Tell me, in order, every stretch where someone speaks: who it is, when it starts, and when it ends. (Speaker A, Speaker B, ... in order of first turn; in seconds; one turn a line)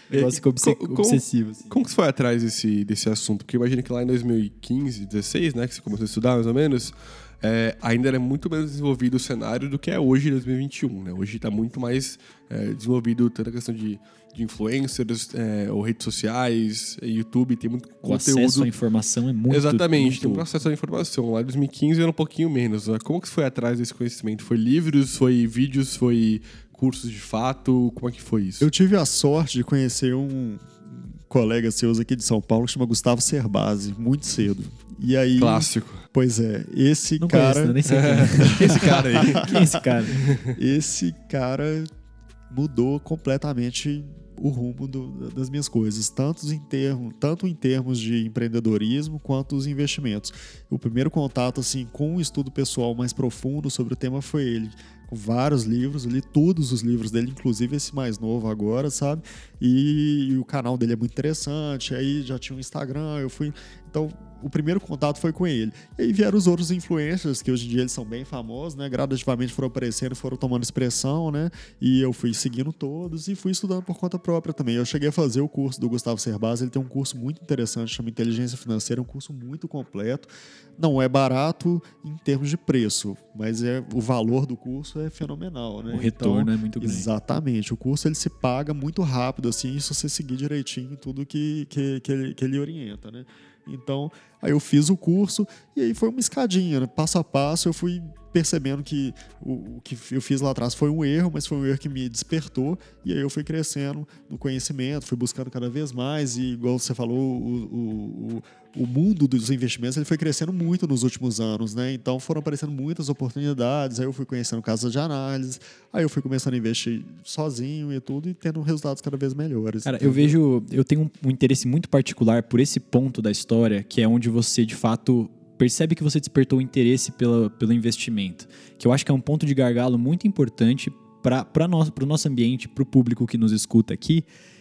Speaker A: 0.1-1.7
Speaker B: 0.1-18.7
Speaker A: 18.0-20.4
Speaker B: 19.5-28.7
Speaker C: 28.6-41.9
Speaker B: 35.4-36.0
Speaker A: 37.2-40.2
Speaker B: 37.9-39.5
Speaker B: 40.1-40.5
Speaker C: 42.5-120.3
Speaker A: 85.9-87.1
Speaker A: 119.8-134.2